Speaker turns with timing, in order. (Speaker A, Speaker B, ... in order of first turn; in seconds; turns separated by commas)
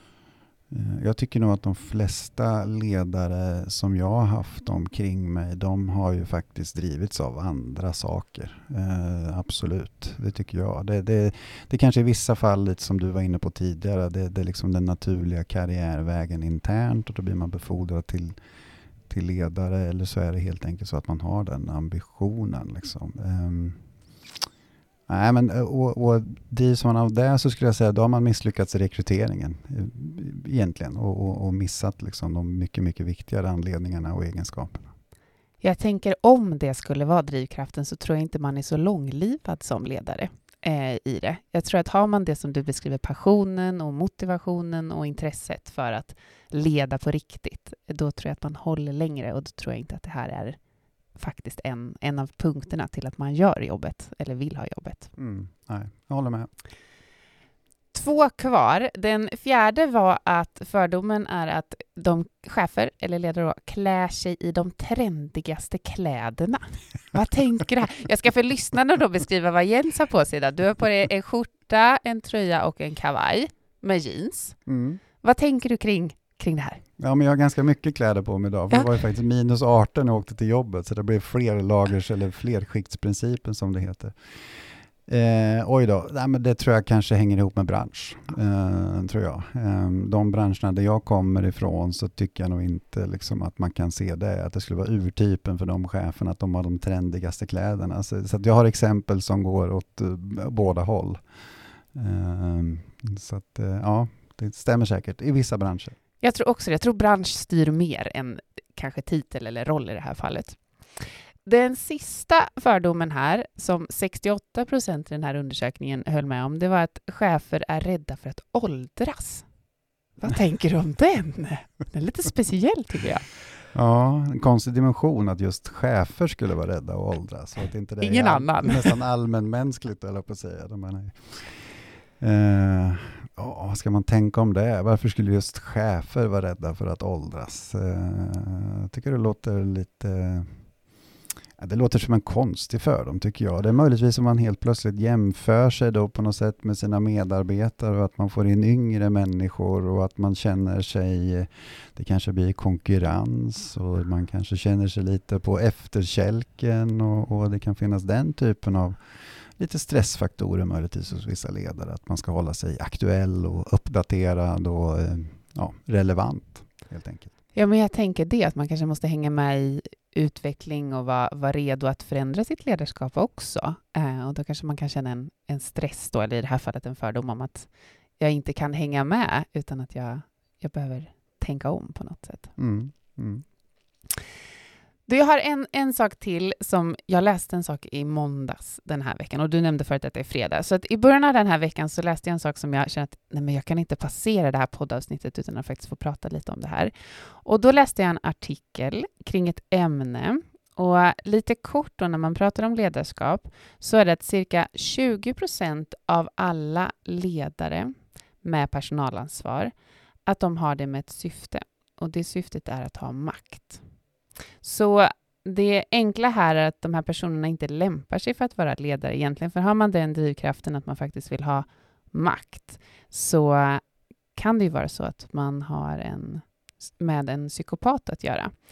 Speaker A: 0.7-18.4, Speaker A: 19.1-23.8, Speaker A: 25.1-34.9, Speaker B: 35.6-50.6, Speaker B: 51.2-55.1, Speaker A: 55.2-56.5, Speaker B: 57.9-74.6, Speaker A: 74.7-75.0, Speaker B: 75.2-76.8, Speaker A: 77.0-84.2, Speaker A: 85.1-101.2, Speaker A: 101.9-106.0, Speaker B: 106.2-110.6, Speaker B: 111.5-119.5, Speaker B: 120.2-123.3, Speaker A: 123.7-140.6, Speaker B: 128.0-128.9, Speaker A: 141.6-159.0, Speaker A: 159.6-167.3, Speaker B: 167.6-182.5, Speaker A: 182.6-183.4, Speaker B: 185.1-209.7, Speaker B: 210.3-213.8, Speaker B: 214.6-223.8, Speaker B: 224.4-226.4, Speaker B: 227.0-228.5